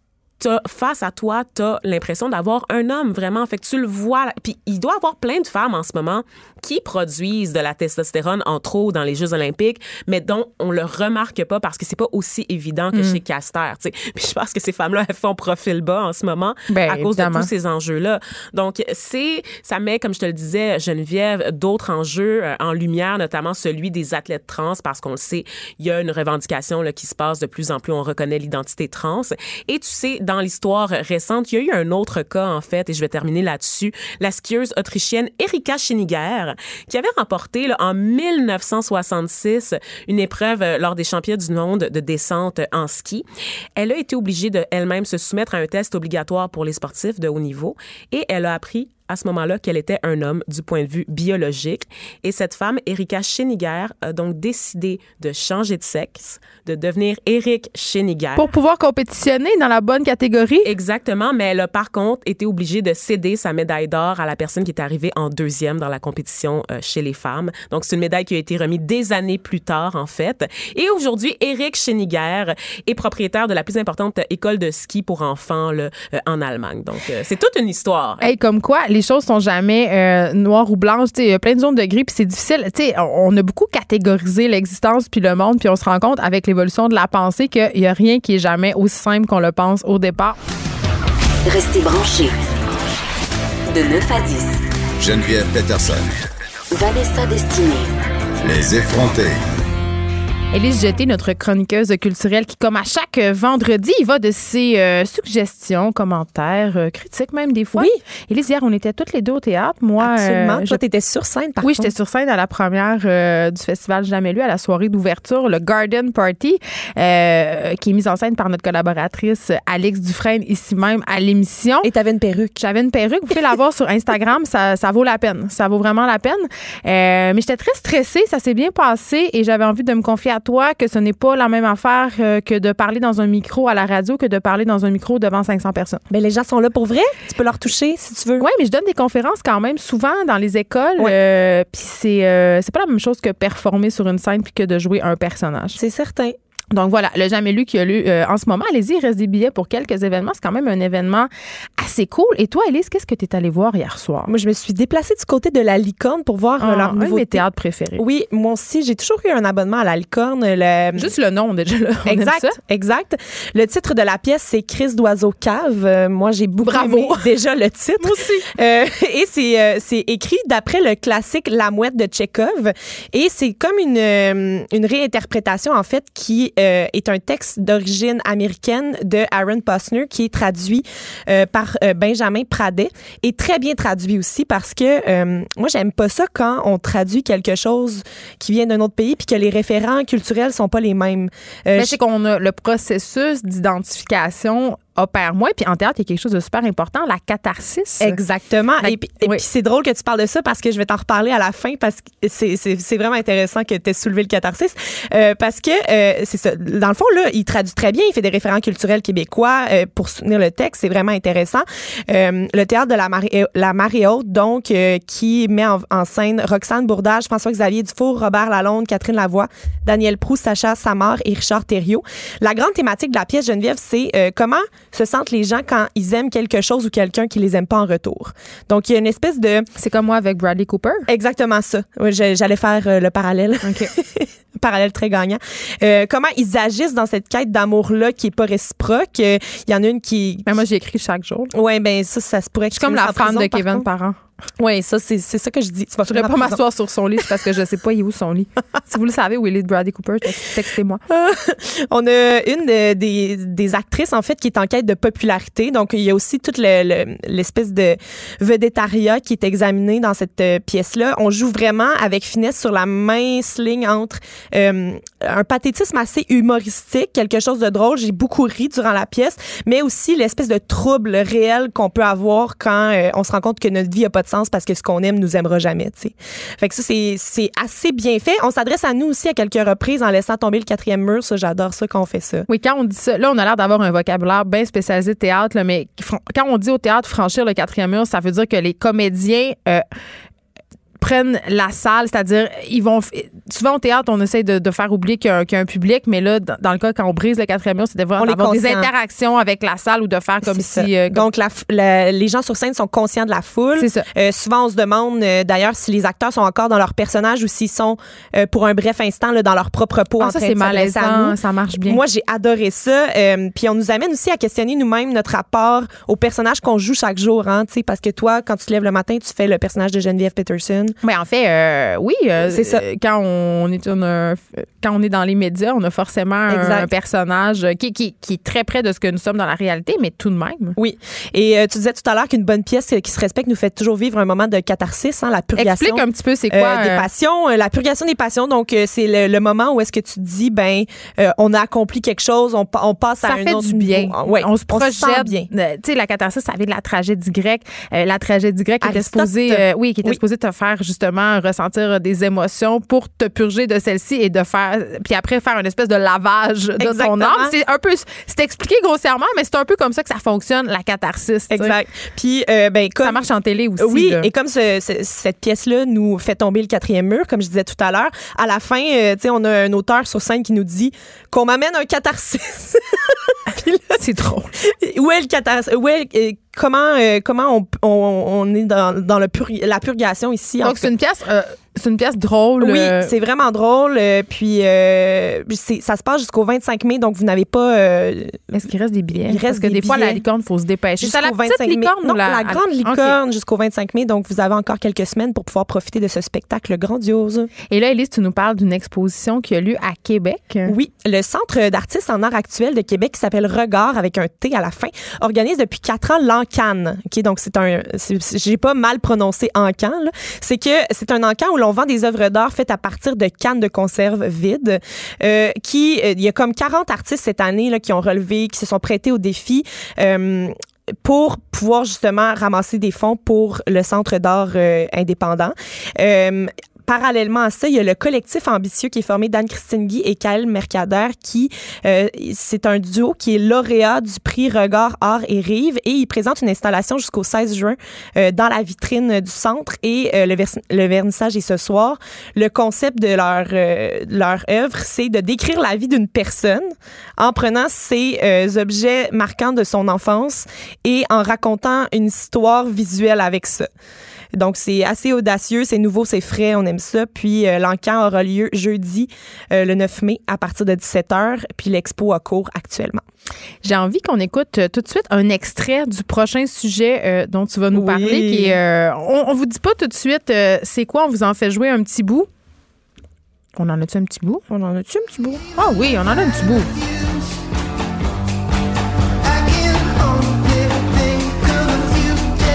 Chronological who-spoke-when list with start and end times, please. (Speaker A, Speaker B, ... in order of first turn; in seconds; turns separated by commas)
Speaker A: 0.4-58.5, Speaker B: 12.9-13.2, Speaker B: 16.7-17.5, Speaker B: 58.4-60.7, Speaker A: 60.6-78.3, Speaker B: 78.2-90.4, Speaker C: 91.5-92.4, Speaker C: 93.7-94.6, Speaker D: 95.0-96.2, Speaker C: 96.7-97.9, Speaker D: 98.4-99.4, Speaker B: 100.5-110.8, Speaker E: 110.0-111.9, Speaker B: 111.6-121.9, Speaker E: 121.8-122.6, Speaker B: 122.6-136.0, Speaker E: 136.1-138.4, Speaker B: 138.4-145.8, Speaker E: 145.8-146.3, Speaker B: 146.7-154.3, Speaker E: 154.3-157.4, Speaker B: 156.6-158.0, Speaker E: 158.0-161.1, Speaker B: 161.0-162.6, Speaker E: 162.1-192.0, Speaker B: 166.7-167.3, Speaker B: 168.0-168.5, Speaker B: 191.8-198.2, Speaker E: 198.0-229.7, Speaker B: 198.8-199.4, Speaker B: 229.8-231.1, Speaker E: 231.1-240.6, Speaker B: 233.6-233.9, Speaker B: 240.5-241.5, Speaker E: 241.5-243.9, Speaker B: 242.7-244.2, Speaker E: 244.6-246.6, Speaker B: 246.1-251.0, Speaker E: 251.1-282.5, Speaker B: 282.5-289.9, Speaker B: 291.0-301.2, Speaker E: 298.2-298.9, Speaker E: 300.5-321.0, Speaker B: 303.8-304.1, Speaker B: 310.2-312.0, Speaker B: 321.0-330.8, Speaker E: 322.4-322.8, Speaker E: 326.5-326.9, Speaker E: 330.8-345.5, Speaker B: 335.5-337.1, Speaker B: 343.2-361.8, Speaker E: 348.8-350.2, Speaker E: 356.8-357.6, Speaker E: 361.5-363.2, Speaker B: 363.0-364.3, Speaker E: 363.8-374.0, Speaker B: 374.0-374.5, Speaker E: 374.6-380.9, Speaker B: 380.6-383.1, Speaker E: 382.6-388.6, Speaker B: 388.5-393.2, Speaker E: 389.2-390.2, Speaker E: 391.0-397.5, Speaker B: 397.7-400.7, Speaker E: 400.7-453.7, Speaker E: 454.4-463.0, Speaker B: 463.6-472.3, Speaker E: 467.7-468.6, Speaker B: 473.6-474.4, Speaker E: 474.5-475.5, Speaker B: 475.5-476.7